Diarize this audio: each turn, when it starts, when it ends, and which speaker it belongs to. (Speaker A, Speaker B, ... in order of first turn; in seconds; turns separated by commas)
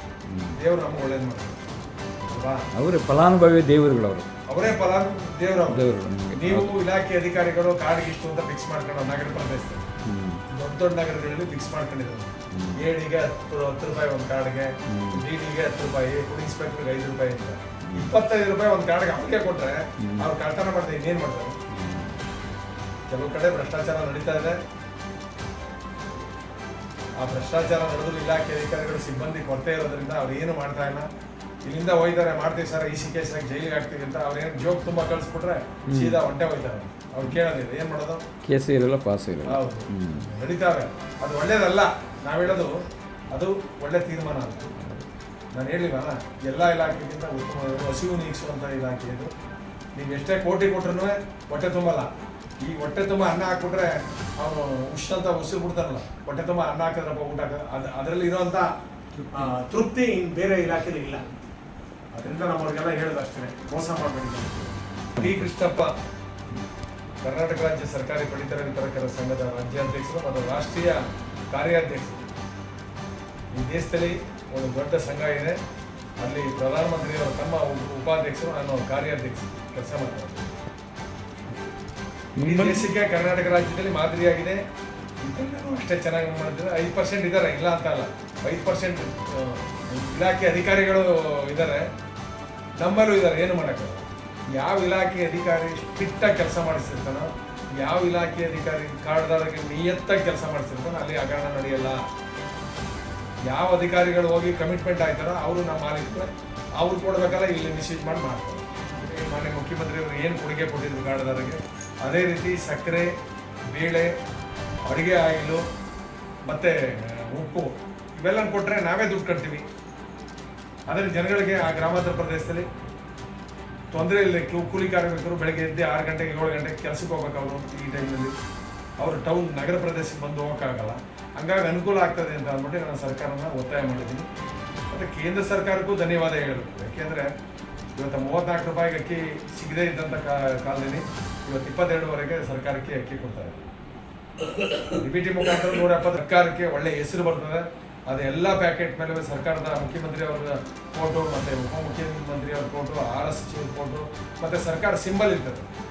Speaker A: 0.3-0.6, Speaker B: 0.6-1.6, Speaker B: 2.2-2.6, Speaker A: 2.7-4.3, Speaker B: 4.5-9.9, Speaker A: 5.7-6.8, Speaker A: 10.0-10.4, Speaker B: 10.5-21.6, Speaker A: 12.5-12.8, Speaker A: 14.9-15.2, Speaker A: 17.8-18.1, Speaker A: 20.0-20.3, Speaker A: 21.7-22.1, Speaker B: 23.1-24.6, Speaker B: 27.2-31.1, Speaker B: 31.6-38.2, Speaker A: 35.9-36.2, Speaker A: 38.4-40.3, Speaker B: 39.5-42.8, Speaker B: 43.3-44.7, Speaker A: 44.8-45.0, Speaker B: 45.5-49.3, Speaker B: 49.9-52.1, Speaker B: 52.6-58.7, Speaker B: 59.3-61.3, Speaker B: 62.1-66.0, Speaker A: 65.2-65.5, Speaker B: 67.2-72.2, Speaker B: 73.5-75.6, Speaker B: 76.2-80.5, Speaker A: 82.4-82.9, Speaker B: 82.4-84.6, Speaker B: 85.2-91.9, Speaker B: 92.8-102.0, Speaker B: 103.5-113.1, Speaker B: 113.7-114.1, Speaker B: 114.8-115.6, Speaker B: 116.5-119.6, Speaker B: 120.9-122.7, Speaker B: 123.9-128.3, Speaker B: 129.0-134.2, Speaker B: 134.9-137.3, Speaker B: 137.9-143.6, Speaker B: 144.8-155.7